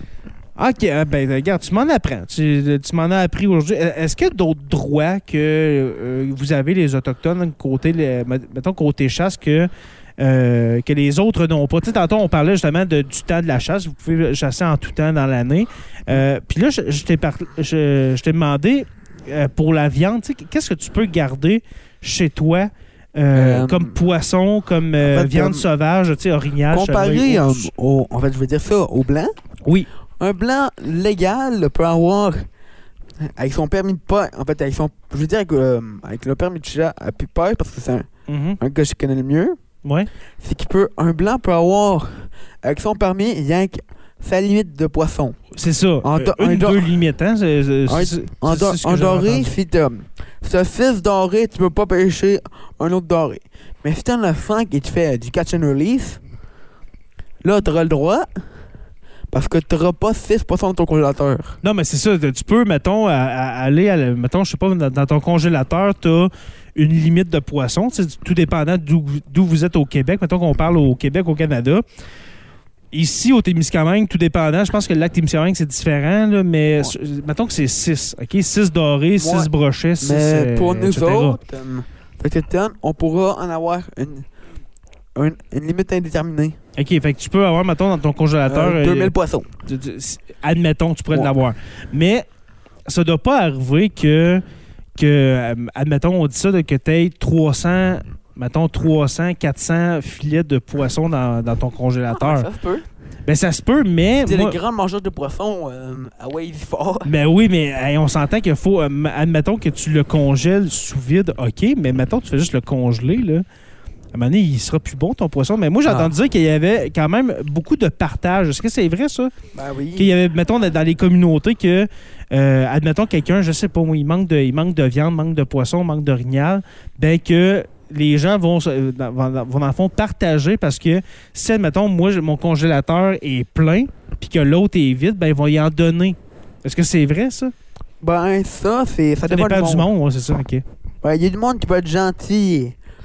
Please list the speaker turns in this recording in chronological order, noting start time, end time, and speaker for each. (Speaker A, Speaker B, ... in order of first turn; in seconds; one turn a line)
Speaker A: 0.6-27.7
Speaker B: 23.3-24.0
Speaker B: 25.0-25.7
Speaker B: 26.7-29.3
Speaker B: 30.2-32.5
Speaker B: 33.2-38.1
Speaker A: 38.3-38.6
Speaker B: 38.6-39.6
Speaker B: 40.4-45.4
Speaker A: 45.5-49.5
Speaker B: 46.0-46.9
Speaker B: 47.9-56.2
Speaker B: 57.4-58.3
Speaker B: 59.3-61.6
Speaker A: 61.6-71.8
Speaker A: 72.9-81.4
Speaker B: 79.2-84.3
Speaker B: 85.1-86.6
Speaker A: 86.8-89.1
Speaker B: 88.5-89.5
Speaker A: 89.7-92.3
Speaker A: 92.9-94.4
Speaker A: 95.0-102.5
Speaker B: 102.1-102.8
Speaker A: 103.3-104.6
Speaker B: 104.2-107.1
Speaker A: 107.0-113.4
Speaker A: 114.1-119.3
Speaker B: 115.8-116.1
Speaker B: 119.5-120.1
Speaker A: 119.9-137.5
Speaker B: 138.0-139.9
Speaker A: 139.3-140.6
Speaker B: 141.0-142.8